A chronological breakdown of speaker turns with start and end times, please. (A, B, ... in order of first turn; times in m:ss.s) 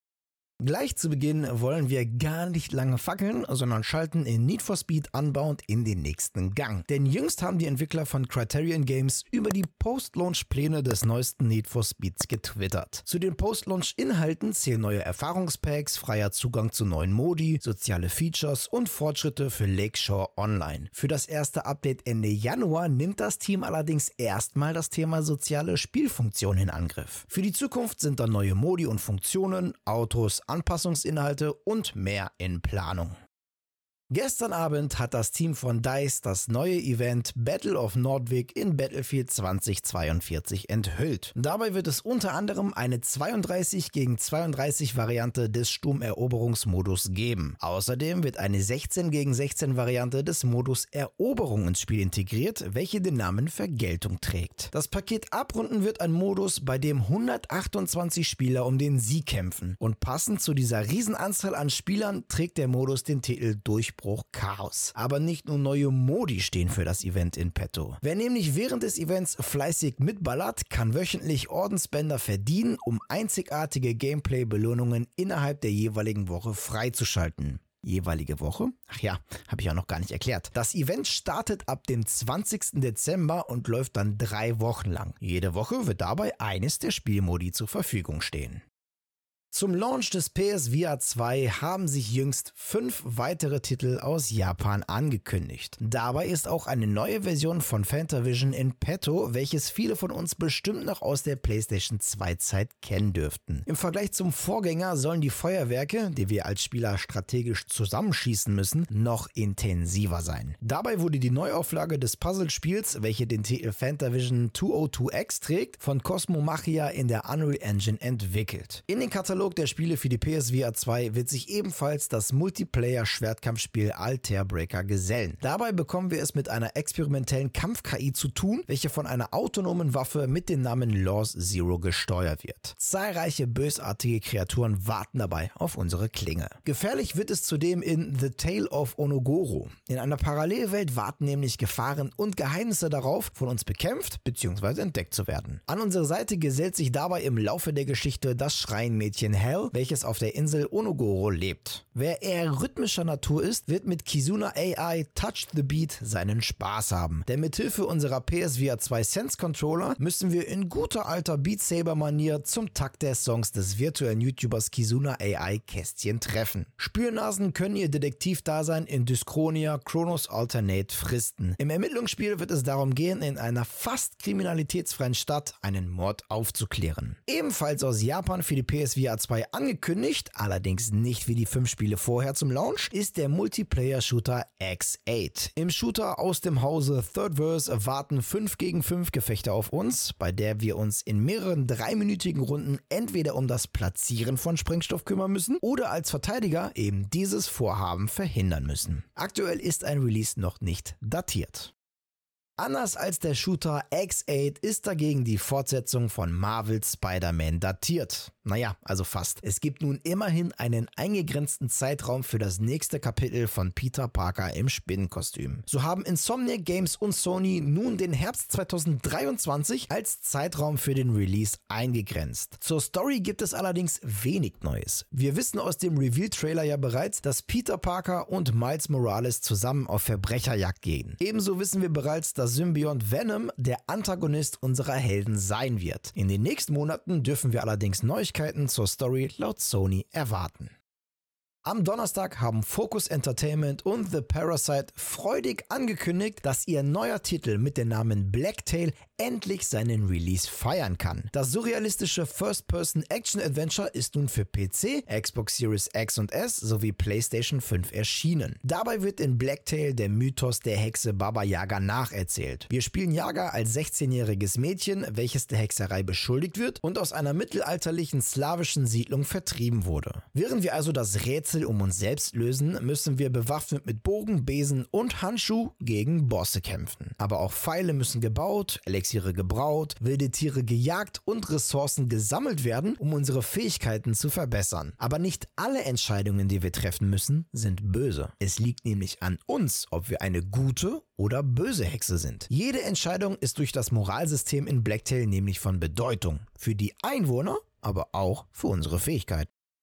0:00.6-0:33.2 A
0:34.1-1:28.6 A
1:29.5-3:21.7 A
3:22.6-4:00.8 A
4:01.6-4:59.5 A